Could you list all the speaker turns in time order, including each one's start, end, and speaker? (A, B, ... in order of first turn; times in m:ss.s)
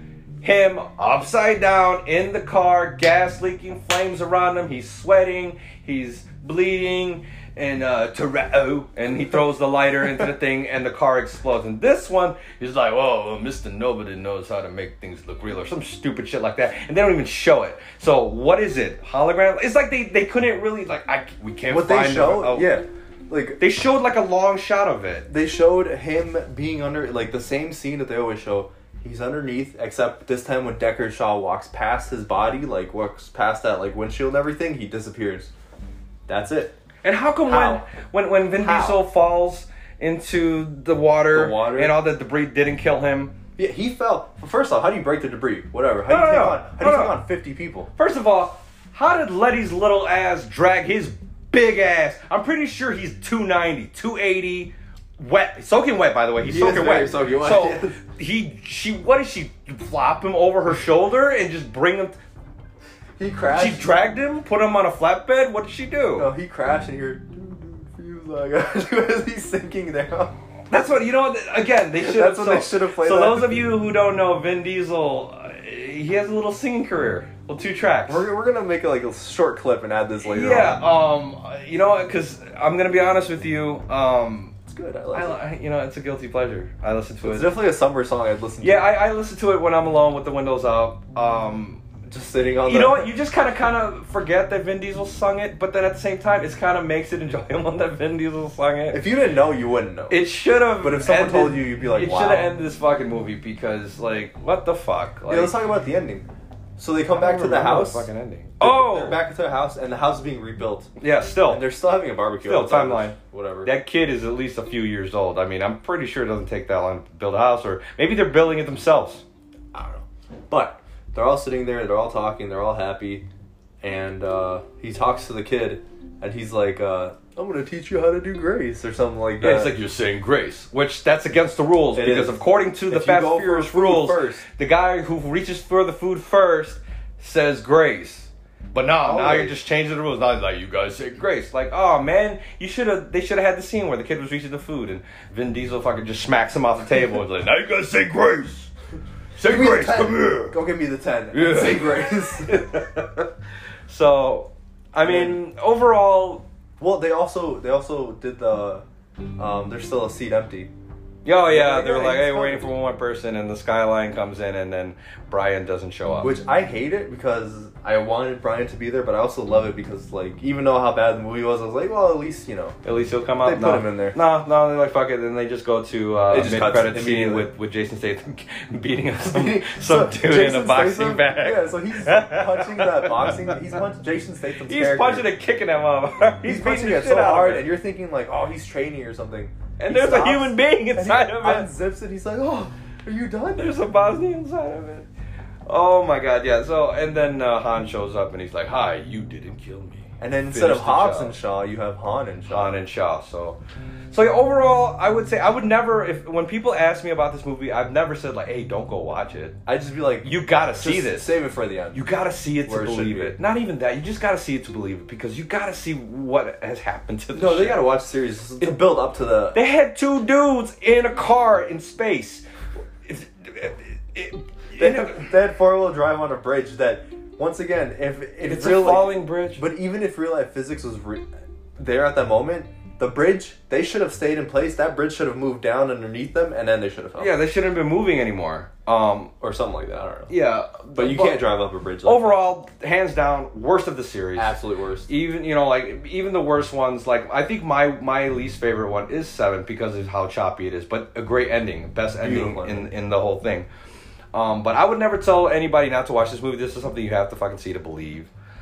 0:00.4-0:22.7 A
0:21.7-0:23.6 B
0:23.6-0:25.3 A
0:25.3-0:35.5 B
0:36.3-0:36.8 B
0:37.0-0:43.3 A
0:37.4-0:37.9 B
0:38.6-0:39.0 B
0:41.3-0:42.0 B
0:43.6-0:47.9 B
0:46.1-0:47.2 A
0:48.0-1:02.2 A
0:56.4-0:58.0 B
1:03.2-1:03.9 B
1:03.5-1:06.3 A
1:06.2-1:10.4 B
1:10.7-1:18.2 A
1:12.0-1:13.7 B
1:18.1-1:20.8 B
1:20.2-1:24.5 A
1:24.6-1:25.4 B
1:25.1-1:27.5 A
1:27.2-1:28.9 B
1:28.6-1:31.8 A
1:32.1-1:33.1 B
1:32.6-1:39.0 A
1:38.9-1:40.2 B
1:40.1-1:45.5 A
1:40.8-1:42.5 B
1:45.3-1:48.1 B
1:47.1-1:49.2 A
1:48.6-1:50.9 B
1:51.0-1:51.6 A
1:51.4-1:53.7 B
1:52.4-1:59.2 A
1:59.7-2:03.2 B
2:03.8-2:09.7 B
2:09.4-2:28.7 A
2:11.9-2:14.4 B
2:19.0-2:19.5 B
2:29.4-2:30.6 A
2:29.4-2:32.6 B
2:31.3-2:33.3 A
2:33.9-2:36.5 A
2:35.0-2:35.4 B
2:36.8-2:38.8 B
2:39.4-2:40.7 B
2:41.2-2:46.3 A
2:41.4-2:42.7 B
2:46.2-2:52.8 B
2:52.8-3:03.8 A
2:53.4-2:54.2 B
2:56.3-2:57.5 B
2:59.3-3:05.3 B
3:04.6-3:07.7 A
3:06.4-3:13.7 B
3:09.8-3:11.7 A
3:13.6-3:15.1 A
3:15.7-3:21.4 A
3:20.2-3:22.8 B
3:22.5-3:23.6 A
3:24.1-3:29.6 A
3:29.6-3:32.0 B
3:30.2-3:31.3 A
3:31.9-3:37.8 A
3:32.6-3:33.4 B
3:37.3-3:39.6 B
3:39.5-3:42.4 A
3:43.0-3:45.3 A
3:44.8-3:51.2 B
3:48.4-3:49.6 A
3:51.8-3:57.4 B
3:57.2-3:59.3 A
3:59.4-4:00.3 B
4:00.3-4:01.4 A
4:00.9-4:02.2 B
4:02.0-4:13.7 A
4:04.4-4:05.1 B
4:12.2-4:12.9 B
4:14.3-4:18.3 A